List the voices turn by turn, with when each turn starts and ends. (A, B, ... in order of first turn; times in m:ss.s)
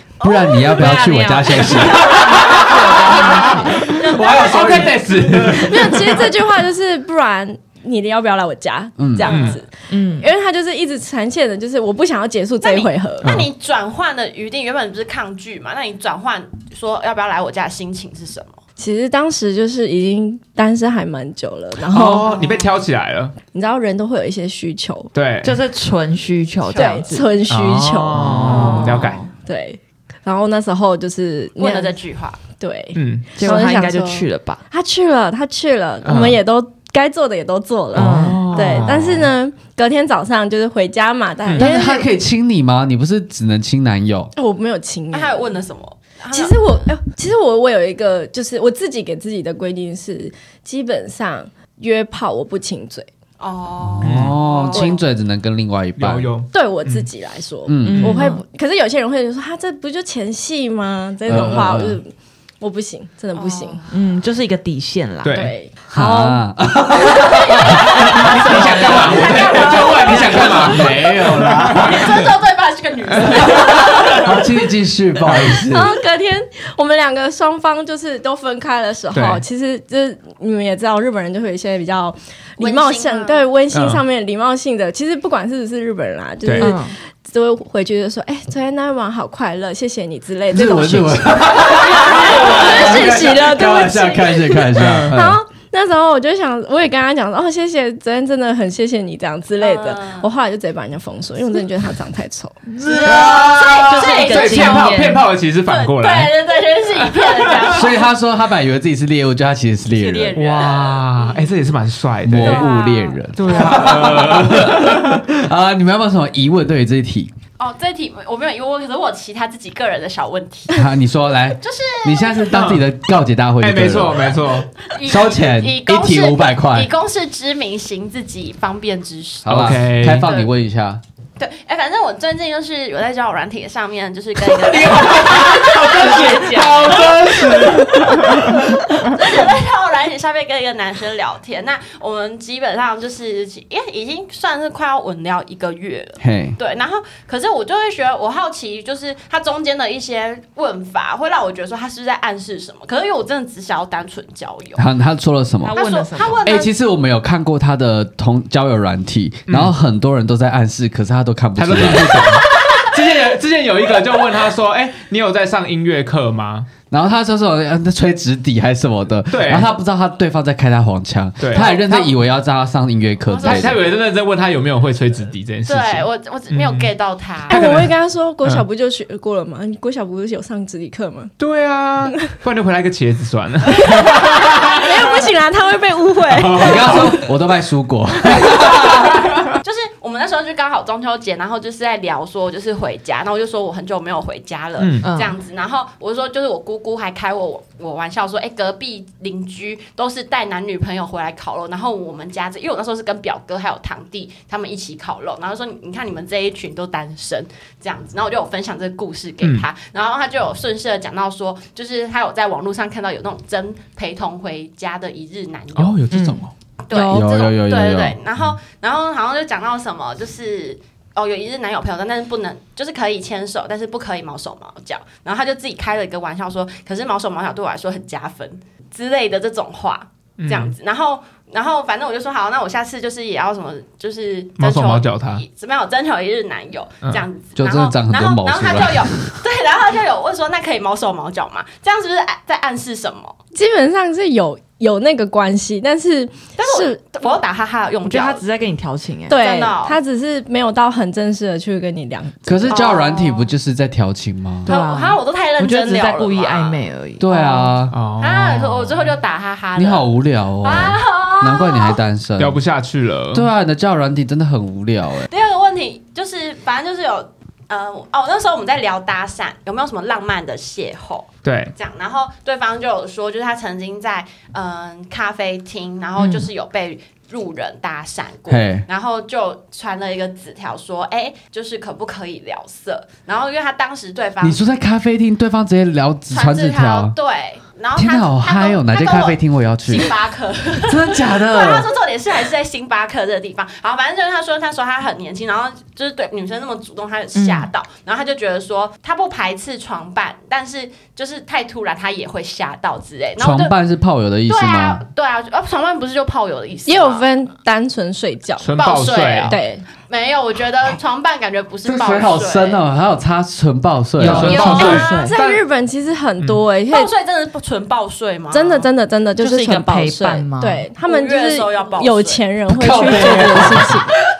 0:00.2-0:00.6 A
0:00.2-0:05.8 B
0:00.6-0:03.9 C
0:01.8-0:02.6 D
0:03.4-0:06.2 D
0:03.8-0:05.0 A
0:05.6-0:13.3 E
0:09.0-0:09.4 B
0:09.3-0:09.6 D
0:09.9-0:10.3 C
0:12.6-0:18.6 A
0:13.2-0:13.5 D
0:18.8-0:22.4 E
0:21.9-0:23.3 D
0:22.2-0:22.6 A
0:23.5-0:25.1 E
0:25.1-0:25.6 D
0:25.4-0:27.3 C
0:26.6-0:27.1 A
0:26.8-0:32.0 E
0:27.5-0:29.3 D
0:28.2-0:29.3 C
0:28.2-0:28.7 B
0:31.6-0:32.4 A
0:32.6-0:42.1 E
0:32.9-0:33.3 D
0:33.4-0:34.6 C
0:36.0-0:36.4 D
0:37.9-0:38.9 C
0:37.9-0:39.2 D
0:41.6-0:44.3 B
0:44.4-0:45.5 E
0:45.1-0:46.8 A
0:46.3-0:53.1 E
0:53.4-0:55.0 A
0:53.9-0:56.3 B
0:54.0-0:54.4 D
0:54.7-0:55.0 E
0:56.0-0:57.1 D
0:56.5-1:03.8 E
0:57.6-0:58.2 B
0:57.8-0:58.4 C
1:01.2-1:02.0 B
1:03.3-1:03.8 A
1:03.9-1:05.5 C
1:05.2-1:05.5 D
1:05.3-1:08.1 E
1:05.9-1:12.1 B
1:08.0-1:10.8 C
1:08.1-1:12.2 D
1:08.9-1:10.8 A
1:11.7-1:14.4 A
1:13.1-1:14.2 D
1:13.4-1:15.9 B
1:15.2-1:15.6 D
1:15.7-1:42.6 E
1:19.1-1:19.4 D
1:22.6-1:23.5 A
1:23.7-1:24.0 D
1:26.4-1:26.8 D
1:26.6-1:26.9 C
1:30.5-1:35.4 B
1:31.7-1:33.2 A
1:34.8-1:35.2 D
1:39.6-1:40.3 A
1:42.7-1:45.3 C
1:42.8-1:45.0 A
1:43.0-1:46.3 D
1:43.1-1:43.8 B
1:45.6-1:48.1 A
1:47.0-1:47.8 D
1:47.7-1:50.4 B
1:49.9-1:51.5 A
1:50.3-1:52.7 D
1:52.2-1:57.3 B
1:52.4-1:54.2 A
1:53.3-1:55.2 D
1:57.6-2:00.8 A
2:00.7-2:04.4 B
2:01.6-2:02.5 A
2:02.5-2:02.8 D
2:03.6-2:04.7 D
2:04.8-2:09.6 A
2:05.0-2:06.9 B
2:09.4-2:11.0 B
2:09.5-2:10.3 D
2:10.2-2:10.5 A
2:11.4-2:34.8 A
2:14.6-2:18.1 B
2:15.6-2:19.2 D
2:26.2-2:26.6 B
2:34.8-2:35.8 B
2:35.6-2:36.7 A
2:35.6-2:36.6 C
2:36.4-2:42.4 B
2:39.5-2:39.7 D
2:41.6-2:46.7 D
2:46.9-2:53.8 B
2:49.3-2:49.7 D
2:51.4-2:52.2 D
2:51.5-2:51.8 A
2:53.2-2:53.8 A
2:53.4-2:56.9 D
2:55.6-2:57.6 A
2:57.5-2:58.6 D
2:57.5-3:01.3 E
3:01.4-3:05.2 D
3:03.8-3:07.2 E
3:06.3-3:07.2 D
3:06.6-3:09.2 B
3:08.8-3:36.0 A
3:14.8-3:15.1 D
3:15.0-3:15.3 C
3:35.7-3:36.5 D
3:36.1-3:36.4 C
3:36.8-4:03.4 A
3:36.9-3:37.2 E
3:37.0-3:38.2 B
3:50.4-3:50.7 D
3:54.6-3:55.4 D
3:57.6-3:59.2 B
4:03.5-4:07.3 E
4:06.6-4:08.4 A
4:08.0-4:09.4 C
4:09.3-4:12.9 E
4:09.3-4:10.0 A
4:12.4-4:14.7 B
4:12.7-4:13.5 A
4:14.6-4:17.2 C
4:14.6-4:17.6 A
4:17.2-4:17.9 B
4:17.9-4:19.1 D
4:18.2-4:22.0 A
4:19.8-4:22.6 B
4:22.4-4:23.5 D
4:23.3-4:25.3 B
4:25.3-4:44.6 A
4:31.4-4:31.7 D
4:38.5-4:38.8 B
4:44.4-4:47.1 B
4:46.3-5:03.7 A
4:48.0-4:50.1 B
4:50.8-4:51.9 B
4:57.3-4:57.7 C
5:03.4-5:05.0 B
5:04.5-5:07.2 A
5:06.9-5:08.7 E
5:08.6-5:09.6 D
5:08.8-5:12.8 A
5:09.5-5:09.8 E
5:11.8-5:14.7 B
5:14.2-5:15.3 C
5:14.2-5:15.6 D
5:14.4-5:15.5 A
5:14.7-5:17.1 E
5:16.9-5:18.9 A
5:18.5-5:24.1 E
5:19.4-5:20.8 C
5:21.0-5:22.4 A
5:22.7-5:24.0 B